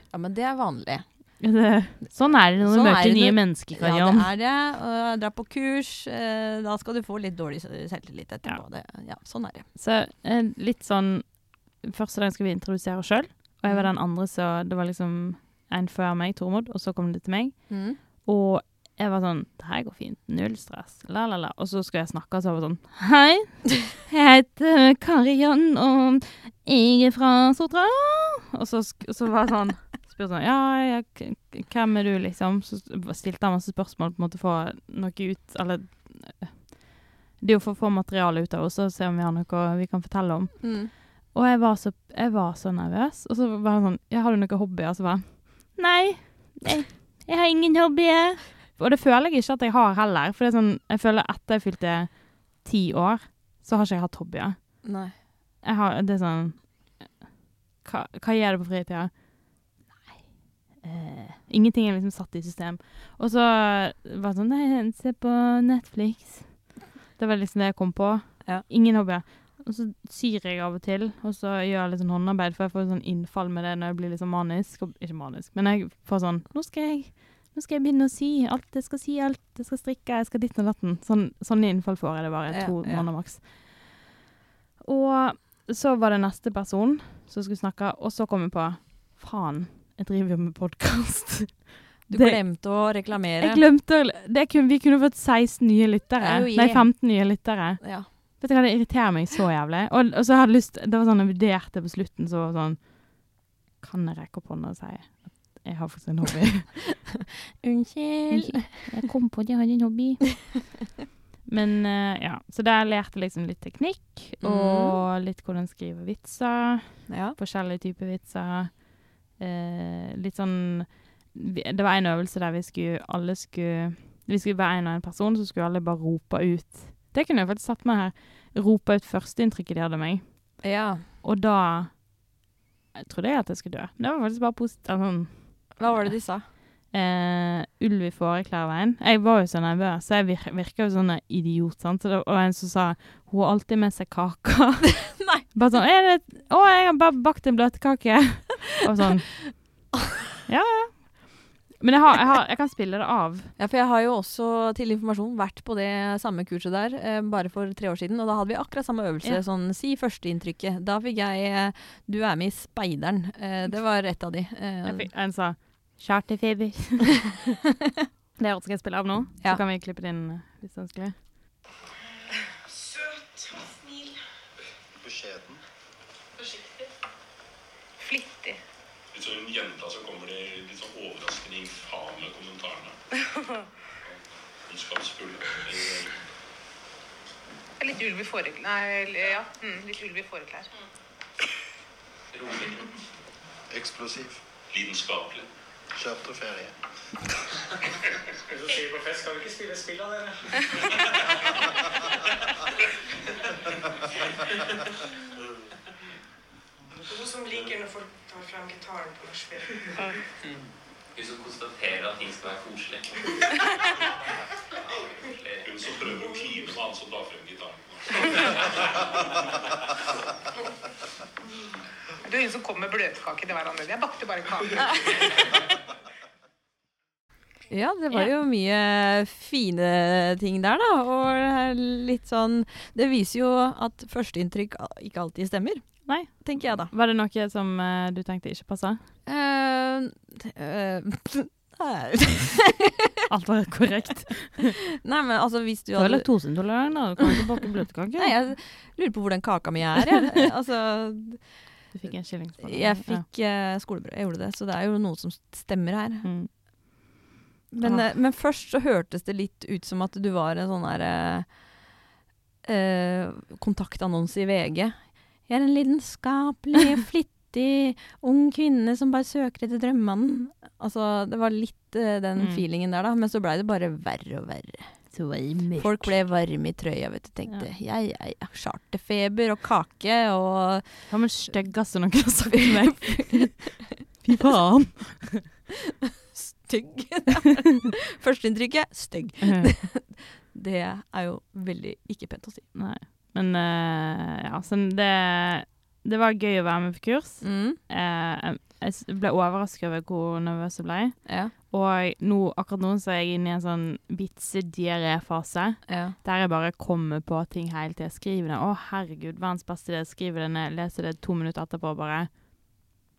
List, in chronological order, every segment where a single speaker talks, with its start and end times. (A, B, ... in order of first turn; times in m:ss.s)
0:00.1-0:01.5 A
0:01.4-0:04.3 B
0:02.2-0:09.7 A
0:09.7-0:54.9 B
0:13.6-0:13.9 A
0:17.7-0:18.0 A
0:40.6-0:40.9 A
0:54.8-0:55.1 A
0:55.6-0:57.2 B
0:57.8-1:24.0 B
1:22.5-1:23.1 A
1:24.8-1:46.9 B
1:32.1-1:33.6 A
1:36.2-1:38.1 A
1:47.6-1:48.9 A
1:48.3-1:50.7 B
1:51.4-2:12.3 B
1:54.4-1:55.0 A
1:57.1-1:57.4 A
2:10.6-2:11.0 A
2:12.9-2:29.8 B
2:15.8-2:16.5 A
2:25.2-2:25.4 A
2:29.5-2:29.8 A
2:30.5-2:33.5 B
2:33.6-2:45.1 A
2:44.8-2:47.4 B
2:48.4-2:51.3 B
2:52.8-2:54.1 C
2:55.0-2:55.6 D
2:56.4-2:56.8 C
2:58.0-2:58.6 C
2:59.1-3:03.0 E
3:04.6-3:06.2 E
3:07.8-3:10.7 C
3:12.3-3:13.0 F
3:13.7-3:14.4 D
3:14.7-3:15.5 E
3:16.0-3:17.2 D
3:18.5-3:20.9 G
3:27.1-3:30.1 C
3:31.1-3:33.4 F
3:34.9-3:35.9 F
3:35.6-3:38.6 E
3:42.2-3:45.4 C
3:47.7-3:56.9 A
3:56.0-3:59.1 B
3:59.2-4:02.7 A
4:03.3-4:04.7 B
4:05.0-4:07.0 A
4:06.0-4:08.4 B
4:08.2-4:16.3 A
4:11.9-4:13.2 B
4:16.2-4:17.2 B
4:17.7-4:21.9 A
4:17.8-4:18.1 B
4:22.6-4:35.2 A
4:32.4-4:32.6 B
4:35.1-4:36.2 B
4:35.8-4:43.6 A
4:41.1-4:45.4 B
4:46.3-4:52.7 A
4:49.4-4:49.8 B
4:52.7-5:12.9 B
4:57.4-4:57.8 A
5:01.2-5:01.5 A
5:05.9-5:06.2 A